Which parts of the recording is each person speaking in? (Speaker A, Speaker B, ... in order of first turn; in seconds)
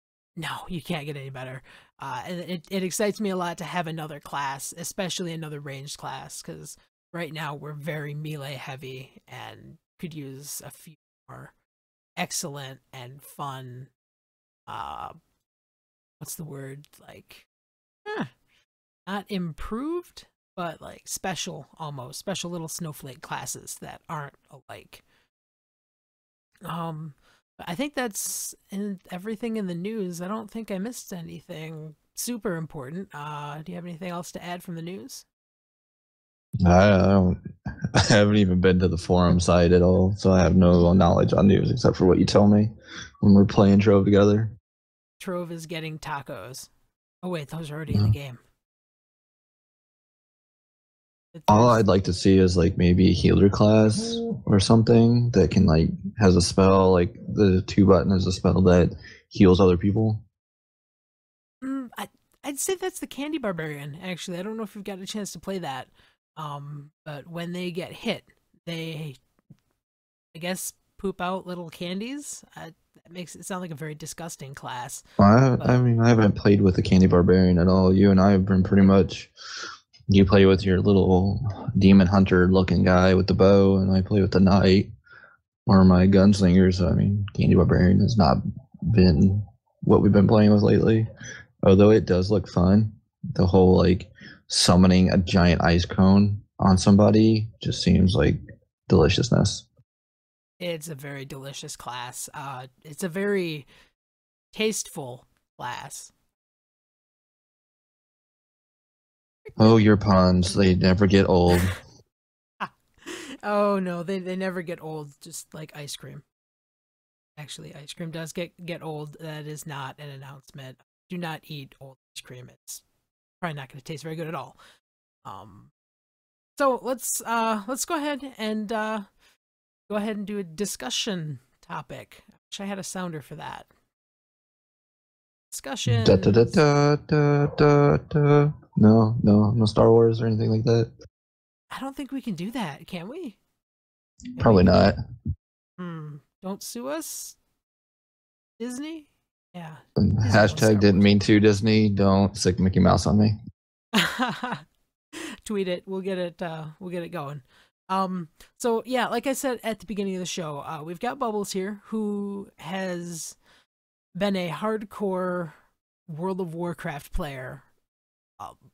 Speaker A: 0.4-11.5, 12.2-13.9, 14.7-15.1, 16.2-17.5, 18.0-18.3, 19.1-25.0, 26.6-35.2, 45.2-46.7, 47.2-48.4, 51.3-51.8, 61.6-69.2, 70.3-75.0, 100.6-103.7, 104.5-106.1, 111.5-111.8, 112.6-116.2, 117.3-122.8, 123.4-124.6, 125.2-125.7, 126.6-129.1, 129.9-133.7, 135.5-136.6, 141.7-143.4, 144.4-144.9, 145.8-147.3, 148.6-151.1, 153.9-163.4, 164.1-165.6, 166.1-167.6
Speaker B: 36.6-37.4, 37.9-44.5, 51.5-60.2, 75.2-79.3, 80.1-84.9, 85.7-91.0, 91.6-99.6, 109.6-111.8, 135.9-140.9, 144.4-145.0, 150.0-153.3